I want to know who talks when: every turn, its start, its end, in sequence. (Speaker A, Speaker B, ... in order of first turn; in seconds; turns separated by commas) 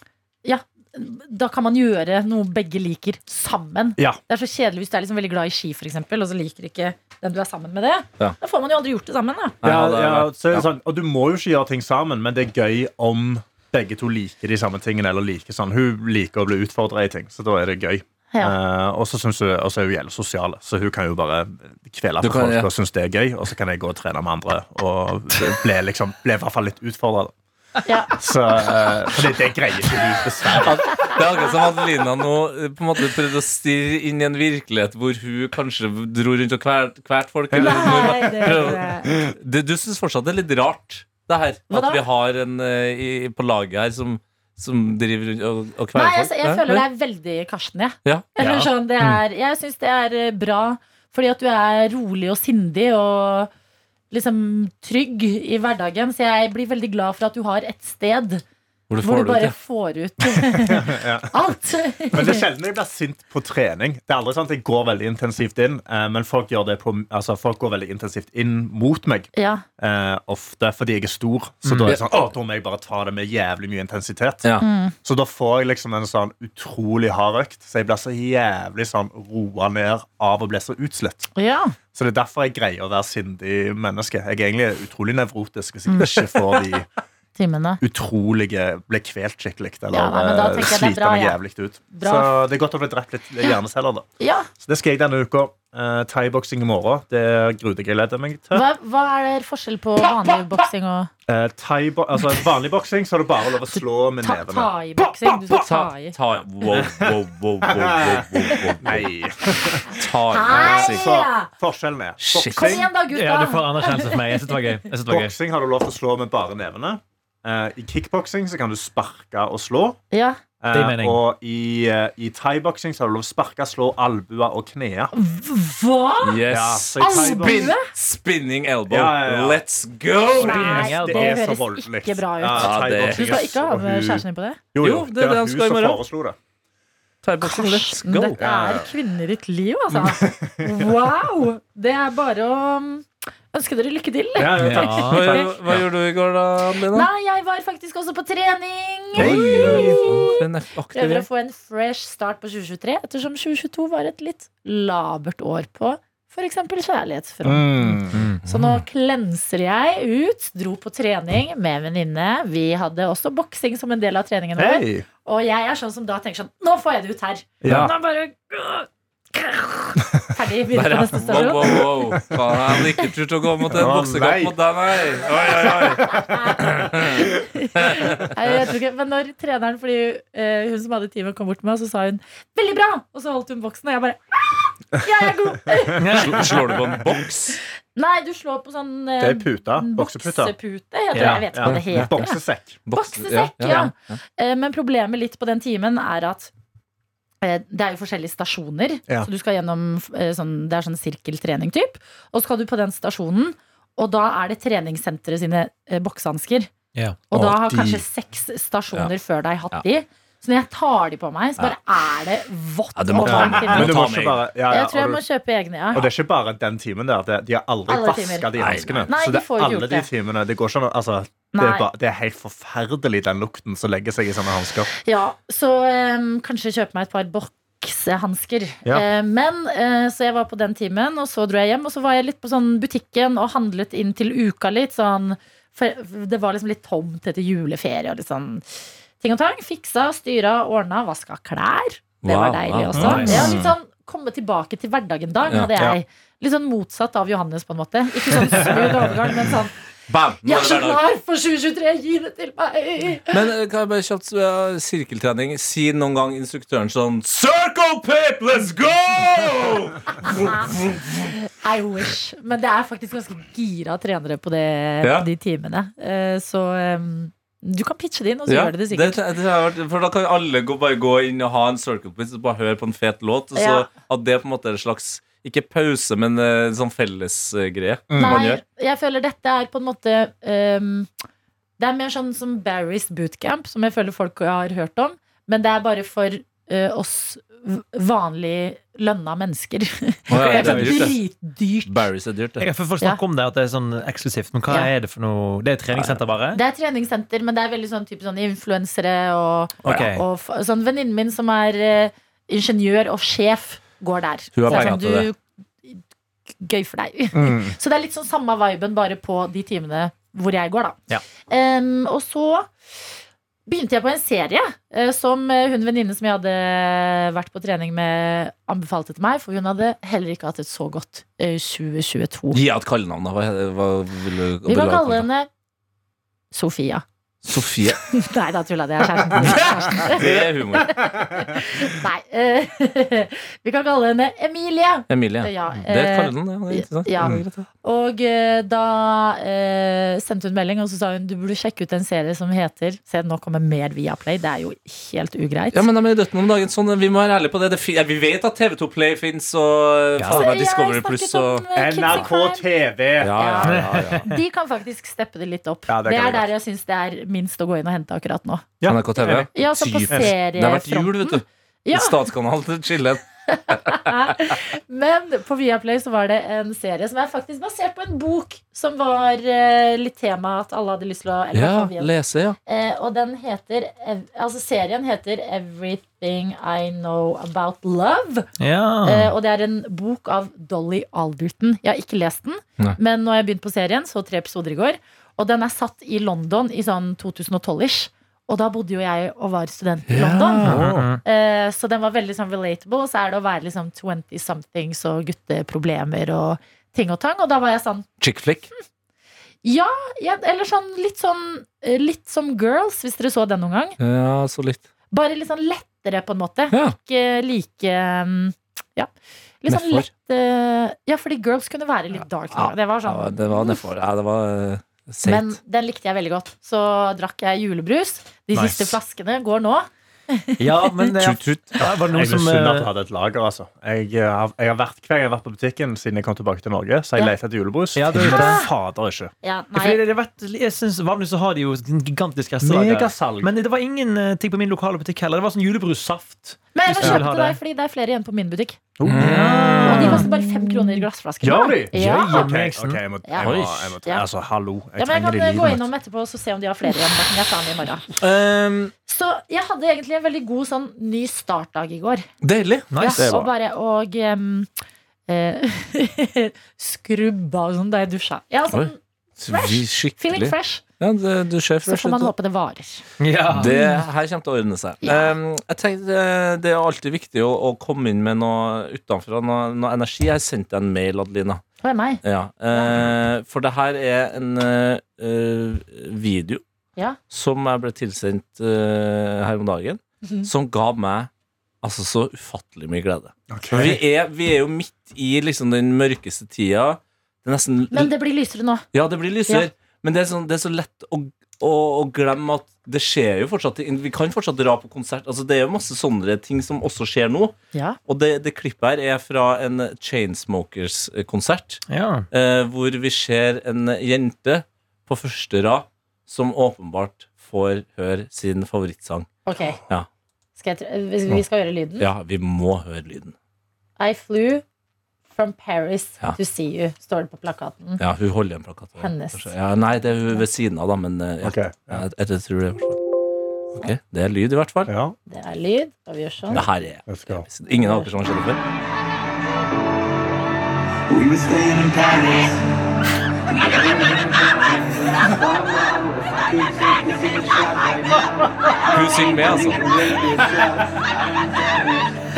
Speaker A: 0.4-9.6, Speaker B: 9.6-10.7, Speaker C: 9.6-27.3, Speaker B: 22.2-22.7, Speaker A: 27.9-28.1, Speaker C: 28.1-31.1, Speaker B: 30.6-46.8, Speaker C: 37.5-39.2, Speaker A: 37.5-39.1, Speaker A: 41.7-42.0, Speaker A: 45.9-53.5, Speaker B: 48.0-48.3, Speaker D: 48.4-48.7, Speaker A: 54.1-58.4, Speaker B: 58.9-59.5, Speaker A: 59.0-62.4, Speaker C: 60.5-74.5, Speaker A: 69.3-69.6, Speaker D: 71.6-72.3, Speaker A: 74.6-74.9, Speaker C: 75.0-81.3, Speaker A: 81.3-81.7, Speaker C: 81.9-86.9, Speaker A: 85.9-86.3, Speaker A: 87.3-87.8, Speaker C: 87.8-94.1, Speaker A: 89.9-91.4, Speaker A: 91.9-92.3, Speaker A: 94.2-94.5, Speaker C: 94.6-98.7, Speaker A: 98.5-101.1, Speaker C: 101.3-105.6, Speaker A: 103.7-106.2, Speaker B: 105.6-109.1, Speaker C: 106.7-112.9, Speaker A: 109.6-111.5, Speaker B: 109.9-111.1, Speaker B: 112.2-112.8, Speaker A: 112.5-114.5, Speaker D: 113.1-115.3, Speaker C: 115.1-120.0, Speaker A: 120.1-120.4, Speaker C: 120.6-125.1, Speaker D: 120.7-121.2, Speaker A: 125.1-126.4, Speaker B: 126.2-130.9, Speaker C: 126.5-127.7, Speaker A: 127.0-127.9, Speaker C: 128.9-129.6, Speaker A: 130.4-134.6, Speaker C: 130.4-136.4, Speaker D: 130.4-131.4, Speaker B: 132.6-133.4, Speaker B: 134.8-136.0, Speaker B: 137.2-138.4, Speaker A: 137.4-145.5, Speaker C: 138.4-138.9, Speaker C: 139.9-140.9, Speaker C: 144.3-145.8, Speaker D: 144.6-145.2, Speaker B: 145.1-147.1, Speaker A: 146.9-150.4, Speaker B: 149.1-151.2, Speaker C: 149.2-150.1, Speaker A: 150.9-172.0, Speaker C: 157.4-158.3, Speaker D: 158.1-158.4, Speaker B: 158.4-158.8, Speaker C: 164.6-165.1, Speaker C: 167.6-167.9, Speaker B: 170.7-178.3, Speaker C: 173.7-174.5, Speaker C: 175.8-176.2, Speaker A: 176.0-186.5, Speaker D: 186.0-186.5, Speaker B: 186.1-187.6, Speaker C: 186.7-187.2, Speaker A: 187.9-192.4, Speaker C: 189.2-190.5, Speaker D: 191.1-191.5, Speaker C: 191.1-192.8, Speaker B: 191.6-192.2, Speaker B: 192.8-194.2, Speaker A: 192.9-196.5, Speaker A: 197.4-206.7, Speaker A: 207.3-214.0, Speaker C: 207.3-208.0, Speaker B: 212.9-214.4, Speaker C: 213.2-215.2, Speaker A: 214.7-216.1, Speaker C: 215.9-224.9, Speaker A: 217.9-218.5, Speaker B: 218.6-219.1, Speaker A: 219.1-220.1, Speaker A: 221.5-221.9, Speaker A: 225.0-249.7, Speaker B: 242.2-243.7, Speaker C: 242.9-243.7, Speaker D: 242.9-243.6, Speaker B: 245.5-245.7, Speaker B: 250.1-251.0, Speaker A: 250.4-253.4, Speaker B: 253.3-261.3, Speaker A: 260.2-260.7, Speaker A: 261.2-269.2, Speaker B: 265.0-265.3, Speaker B: 268.5-278.6, Speaker A: 273.5-273.9, Speaker C: 278.1-278.4, Speaker A: 278.2-281.1, Speaker A: 281.8-292.0, Speaker B: 290.3-291.1, Speaker D: 290.3-291.1, Speaker B: 291.8-292.7, Speaker D: 292.6-296.6, Speaker B: 295.9-296.2, Speaker A: 296.5-306.0, Speaker B: 299.8-300.1, Speaker D: 299.8-300.2, Speaker B: 304.6-305.3, Speaker A: 306.6-312.7, Speaker C: 307.3-307.8, Speaker A: 313.7-322.6, Speaker B: 322.5-325.2, Speaker A: 324.6-325.5, Speaker A: 326.5-327.0, Speaker B: 327.4-328.0, Speaker A: 327.9-345.9, Speaker B: 329.4-331.1, Speaker B: 335.1-337.7, Speaker B: 345.7-351.6, Speaker D: 350.2-350.5, Speaker A: 350.3-352.6, Speaker C: 351.7-353.5, Speaker B: 353.2-354.3, Speaker A: 353.3-358.7, Speaker D: 353.7-354.4, Speaker C: 355.9-356.5, Speaker C: 358.8-359.5, Speaker B: 358.8-364.0, Speaker A: 359.5-362.2, Speaker A: 363.5-372.1, Speaker B: 371.5-372.6, Speaker A: 372.6-378.5, Speaker D: 378.6-379.3, Speaker A: 379.0-398.1, Speaker B: 390.1-390.9, Speaker D: 390.6-391.2, Speaker C: 390.7-391.1, Speaker B: 398.2-398.7, Speaker A: 399.6-404.0, Speaker B: 404.0-404.8, Speaker A: 405.1-409.1, Speaker A: 409.6-413.8, Speaker B: 409.7-410.1, Speaker B: 412.5-415.6, Speaker A: 415.2-421.1, Speaker D: 418.5-418.9, Speaker D: 420.6-422.9, Speaker B: 421.2-421.5, Speaker C: 421.8-429.3, Speaker D: 427.9-428.6, Speaker A: 428.2-428.7, Speaker A: 429.4-430.0, Speaker D: 429.7-437.6, Speaker C: 432.6-433.5, Speaker A: 436.7-438.8, Speaker C: 439.0-440.1, Speaker D: 439.1-441.0, Speaker B: 439.1-440.3, Speaker A: 439.8-442.5, Speaker C: 441.4-445.8, Speaker D: 441.9-443.0, Speaker A: 443.2-444.3, Speaker B: 443.4-443.9, Speaker A: 445.0-448.1, Speaker B: 448.2-448.9, Speaker A: 449.1-452.3, Speaker B: 452.4-452.9, Speaker D: 452.9-453.2, Speaker A: 452.9-454.7, Speaker C: 453.2-453.5, Speaker A: 455.3-460.8, Speaker B: 458.7-462.3, Speaker A: 461.8-463.0, Speaker D: 463.2-463.7, Speaker B: 463.5-471.6, Speaker A: 463.6-464.0, Speaker A: 465.0-465.3, Speaker A: 471.8-472.2, Speaker B: 472.2-476.6, Speaker B: 477.3-481.3, Speaker A: 480.2-480.5, Speaker B: 481.8-488.1, Speaker C: 483.5-484.0, Speaker A: 487.9-488.9, Speaker B: 488.9-497.5, Speaker B: 498.1-509.3, Speaker D: 501.9-502.3, Speaker A: 509.4-509.8, Speaker A: 510.6-512.1, Speaker B: 512.0-513.3, Speaker A: 514.0-514.6, Speaker A: 515.3-518.0, Speaker B: 518.0-523.0, Speaker A: 519.0-519.5, Speaker C: 521.4-522.0, Speaker B: 523.7-524.9, Speaker C: 524.9-525.1, Speaker A: 525.3-526.6, Speaker C: 526.5-527.5, Speaker B: 526.5-528.6, Speaker A: 527.8-528.1, Speaker E: 531.1-532.6, Speaker E: 533.5-542.1, Speaker B: 538.9-539.8